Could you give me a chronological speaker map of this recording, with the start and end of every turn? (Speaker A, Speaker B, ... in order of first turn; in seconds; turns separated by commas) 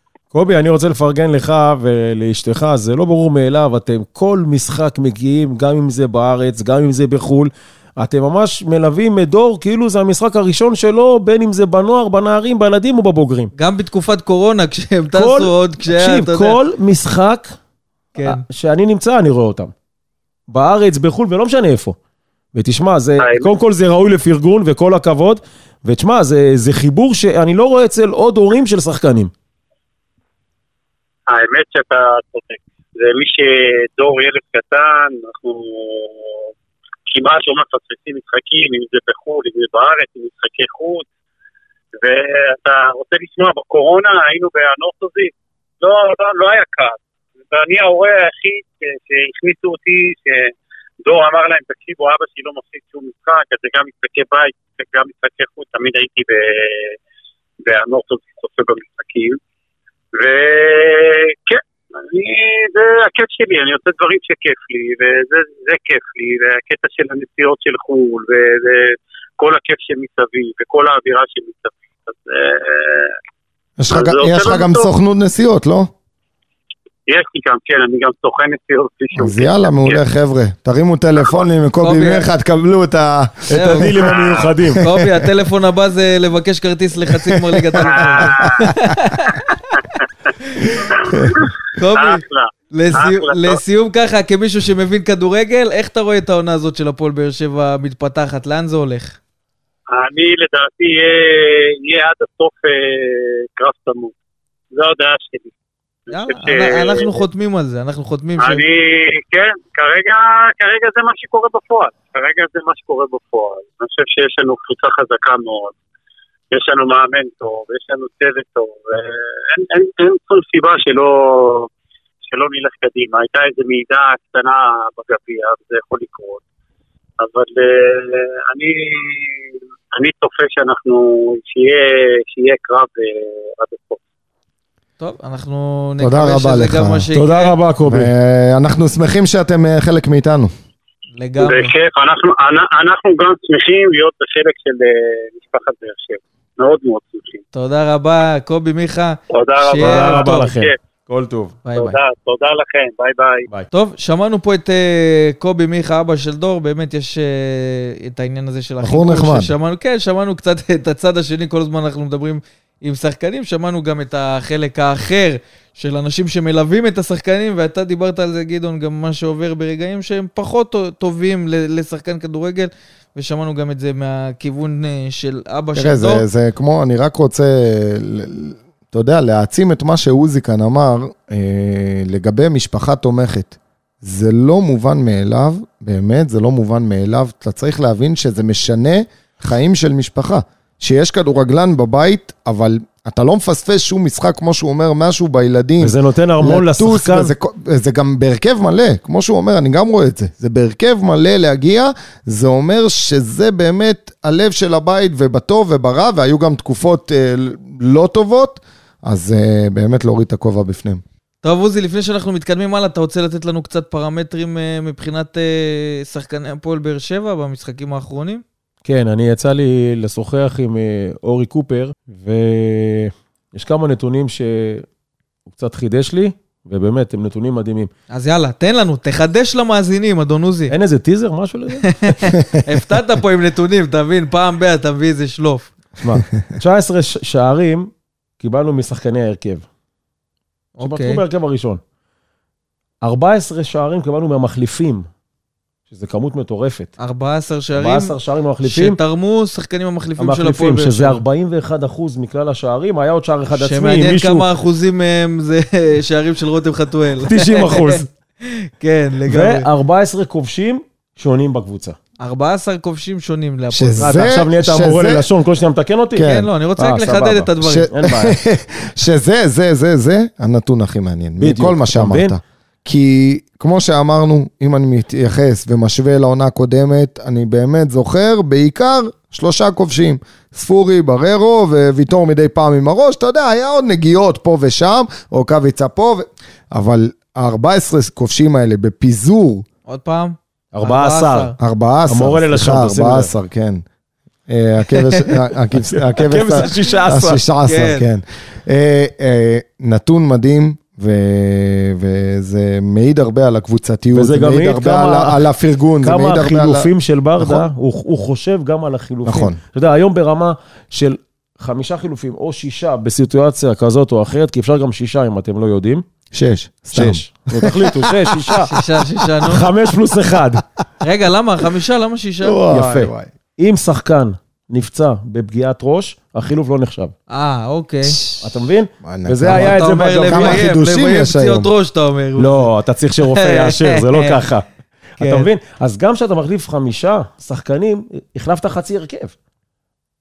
Speaker A: 0.3-13.5, Speaker B: 13.6-16.6, Speaker A: 15.1-17.5, Speaker B: 18.2-18.4, Speaker A: 18.2-19.7, Speaker A: 20.5-21.9, Speaker A: 22.5-29.3, Speaker C: 23.2-23.5, Speaker C: 31.3-36.3, Speaker C: 37.1-41.0, Speaker C: 42.0-57.0, Speaker C: 57.6-59.4, Speaker C: 60.1-73.2, Speaker D: 73.8-75.9, Speaker C: 73.9-74.9, Speaker C: 77.1-80.0, Speaker D: 79.2-84.0, Speaker B: 81.8-82.3, Speaker A: 83.5-84.8, Speaker B: 83.5-84.0, Speaker C: 84.1-84.5, Speaker B: 84.8-89.8, Speaker C: 87.8-88.7, Speaker B: 90.4-90.8, Speaker C: 90.9-93.6, Speaker B: 91.7-99.2, Speaker C: 99.9-104.1, Speaker C: 104.7-105.5, Speaker C: 106.1-107.2, Speaker B: 106.1-108.6, Speaker C: 108.4-115.8, Speaker C: 116.5-121.7, Speaker C: 122.3-126.4, Speaker C: 127.2-129.4, Speaker C: 129.9-134.0, Speaker B: 135.0-137.5, Speaker D: 136.0-137.1, Speaker A: 137.1-138.1, Speaker D: 137.8-140.5, Speaker B: 141.2-141.7, Speaker C: 141.4-147.4, Speaker B: 147.5-150.5, Speaker C: 149.3-150.8, Speaker A: 149.8-151.6, Speaker B: 151.6-151.9, Speaker C: 151.7-153.5, Speaker B: 153.7-176.2, Speaker D: 158.8-159.5, Speaker D: 175.7-211.0, Speaker A: 195.8-197.3, Speaker B: 211.4-218.4, Speaker A: 218.8-224.8, Speaker A: 225.5-227.9, Speaker B: 228.1-230.7, Speaker A: 230.7-232.3, Speaker B: 231.9-235.7, Speaker A: 236.0-239.6, Speaker B: 240.8-241.2, Speaker A: 240.8-241.8, Speaker A: 243.0-245.1, Speaker A: 245.9-246.9, Speaker B: 247.0-251.2, Speaker A: 247.7-249.0, Speaker A: 250.2-254.4, Speaker B: 253.6-259.7, Speaker A: 257.2-258.1, Speaker A: 259.3-261.9, Speaker B: 262.2-264.3, Speaker D: 263.7-265.3, Speaker A: 264.0-268.4, Speaker D: 266.1-266.5, Speaker B: 266.2-267.9, Speaker D: 267.6-289.6, Speaker A: 271.4-272.3, Speaker B: 289.9-291.5, Speaker A: 290.7-291.5, Speaker D: 291.6-293.8, Speaker A: 292.1-293.3, Speaker D: 294.5-307.7, Speaker A: 295.9-297.4, Speaker B: 297.6-298.1, Speaker A: 304.1-305.4, Speaker A: 306.0-316.0, Speaker D: 309.2-309.6, Speaker D: 316.3-318.6, Speaker A: 316.9-318.7, Speaker B: 318.7-319.6, Speaker A: 319.4-320.6, Speaker B: 321.0-322.6, Speaker D: 322.4-323.3, Speaker A: 322.7-327.1, Speaker B: 327.3-328.2, Speaker A: 328.4-330.7, Speaker D: 329.0-331.7, Speaker B: 329.4-332.7, Speaker A: 332.4-334.6, Speaker B: 333.3-334.4, Speaker A: 335.2-339.3, Speaker B: 335.2-335.5